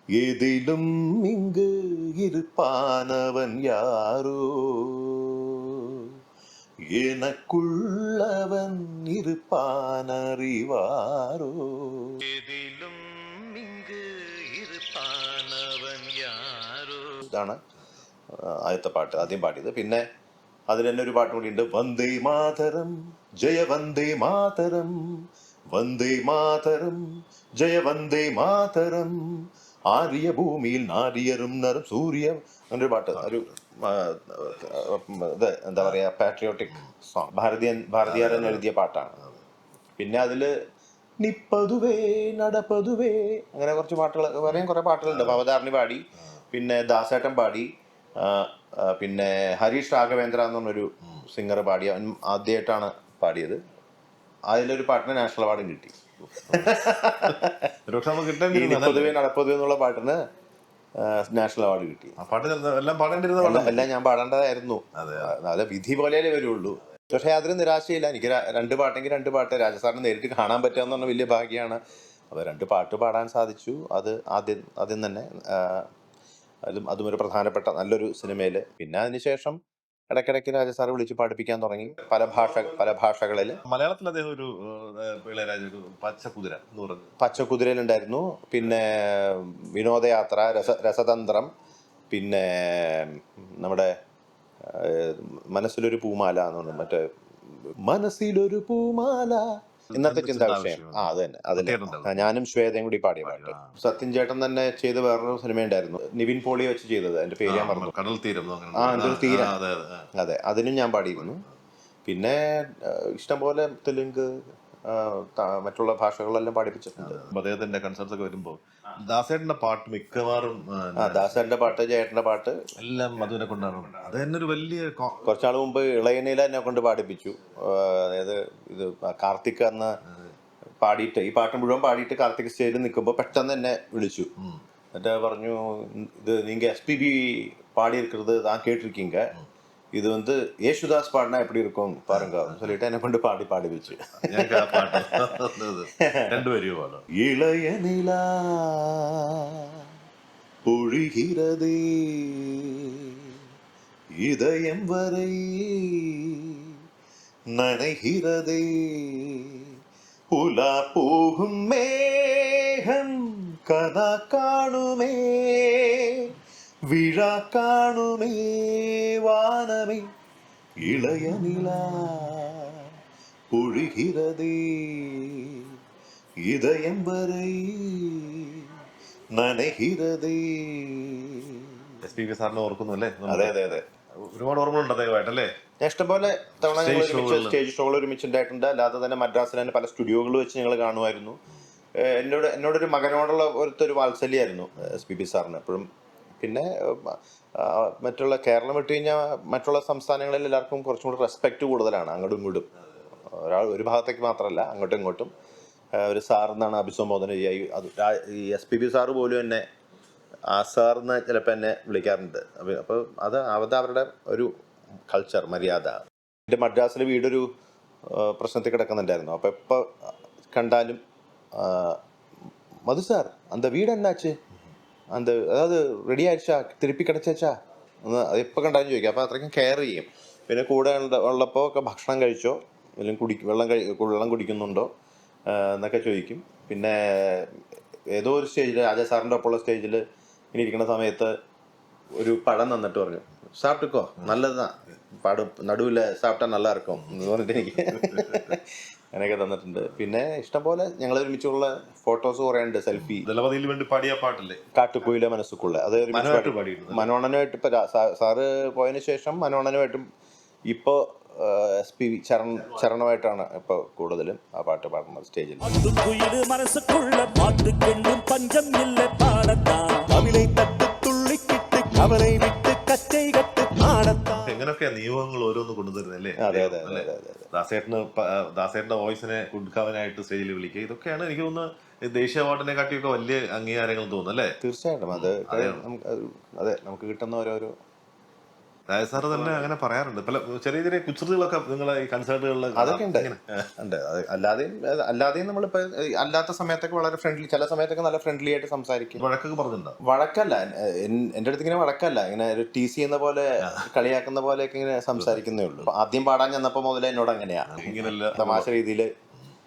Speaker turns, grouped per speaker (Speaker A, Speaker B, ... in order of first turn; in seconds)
Speaker A: 0.2-6.1, 6.9-17.6, 18.3-20.0, 20.7-39.1, 40.0-40.5, 41.2-53.6, 54.5-57.7, 58.5-60.2, 61.0-62.1, 63.4-75.9, 76.7-79.6, 80.1-83.6, 87.2-91.5, 92.1-93.9, 94.7-97.1, 97.8-107.9, 108.7-109.6, 110.1-111.4, 112.0-114.3, 114.9-117.2, 121.0-122.6, 125.2-129.9, 130.8-134.3, 134.9-139.3, 139.9-145.4, 146.0-146.4, 147.1-149.8, 150.7-153.3, 154.2-156.7, 157.5-159.7, 160.3-166.3, 166.9-170.1, 170.8-172.9, 173.5-175.7, 176.4-178.7, 179.3-181.7, 183.3-183.8, 185.8-191.4, 192.0-195.9, 196.4-202.7, 203.3-205.3, 205.9-209.6, 210.5-214.5, 215.1-217.5, 218.1-219.9, 220.5-221.0, 221.5-222.0, 222.9-224.4, 225.1-234.9, 235.5-237.6, 238.1-240.0, 240.5-241.3, 242.2-253.3, 254.7-260.0, 260.7-265.6, 276.4-277.5, 284.6-287.7, 289.2-289.6, 292.8-299.2, 300.0-309.1
Speaker B: 33.2-33.5, 38.0-38.6, 45.0-45.4, 56.5-56.7, 57.9-59.2, 62.2-63.9, 65.0-65.3, 83.6-87.1, 99.9-102.3, 103.2-103.7, 107.4-110.1, 117.0-121.4, 122.8-125.3, 142.2-142.7, 144.2-147.1, 182.0-185.5, 186.6-187.6, 247.9-248.5, 253.0-254.6, 256.1-257.1, 274.3-284.6, 285.1-285.9, 288.9-293.4, 299.1-300.0, 303.6-303.9, 305.2-305.9, 307.7-308.7
Speaker C: 265.6-274.4